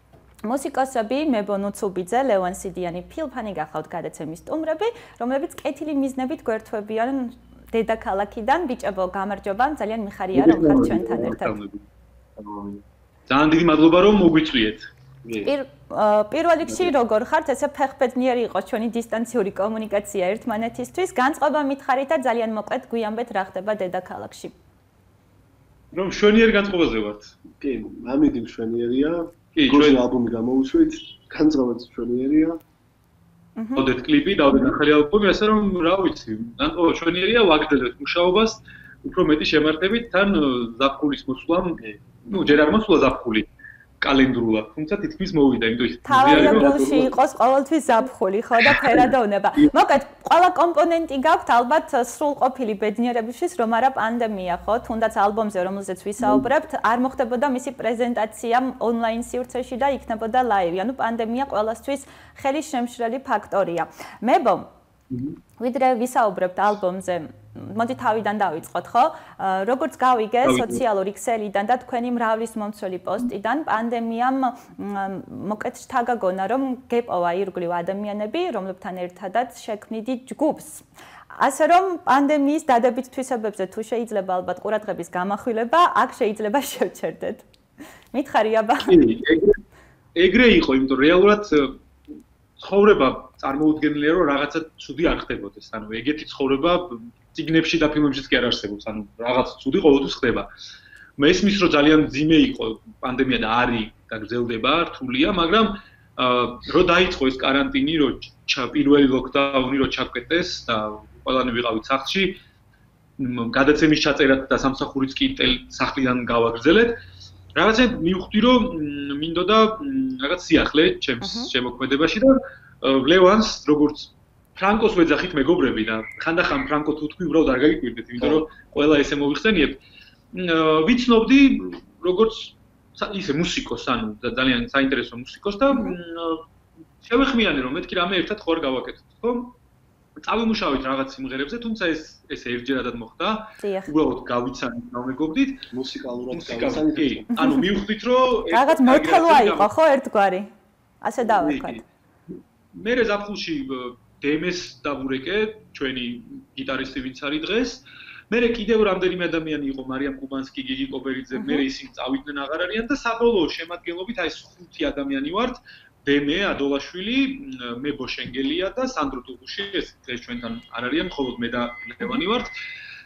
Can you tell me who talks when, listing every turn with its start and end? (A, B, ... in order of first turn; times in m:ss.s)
0:00.4-0:11.6 A
0:10.3-0:11.8 B
0:12.4-0:12.8 C
0:13.3-0:14.9 B
0:15.2-0:15.5 C
0:15.4-0:24.5 A
0:25.9-0:27.3 B
0:27.6-0:32.6 C
0:29.6-0:30.0 B
0:33.6-0:33.9 A
0:33.8-0:43.5 B
0:42.3-0:42.6 A
0:44.0-0:47.0 B
0:46.0-1:04.7 A
0:46.2-0:47.1 C
0:48.7-0:49.0 B
1:05.1-1:05.4 B
1:05.6-1:27.4 A
1:10.4-1:10.8 B
1:28.1-1:29.0 A
1:28.9-1:29.6 B
1:30.1-1:31.8 B
1:32.6-1:40.5 B
1:41.2-1:52.4 B
1:53.2-1:57.0 B
1:57.6-2:09.8 B
2:01.2-2:01.5 A
2:08.2-2:08.5 C
2:10.3-2:16.4 B
2:15.7-2:16.0 A
2:17.0-2:19.6 B
2:20.2-2:25.7 B
2:23.6-2:23.9 A
2:25.7-2:27.3 C
2:26.3-2:29.7 B
2:27.4-2:27.6 A
2:28.5-2:30.5 A
2:31.0-2:31.8 A
2:31.2-2:31.8 B
2:32.7-2:52.5 B
2:41.3-2:41.6 A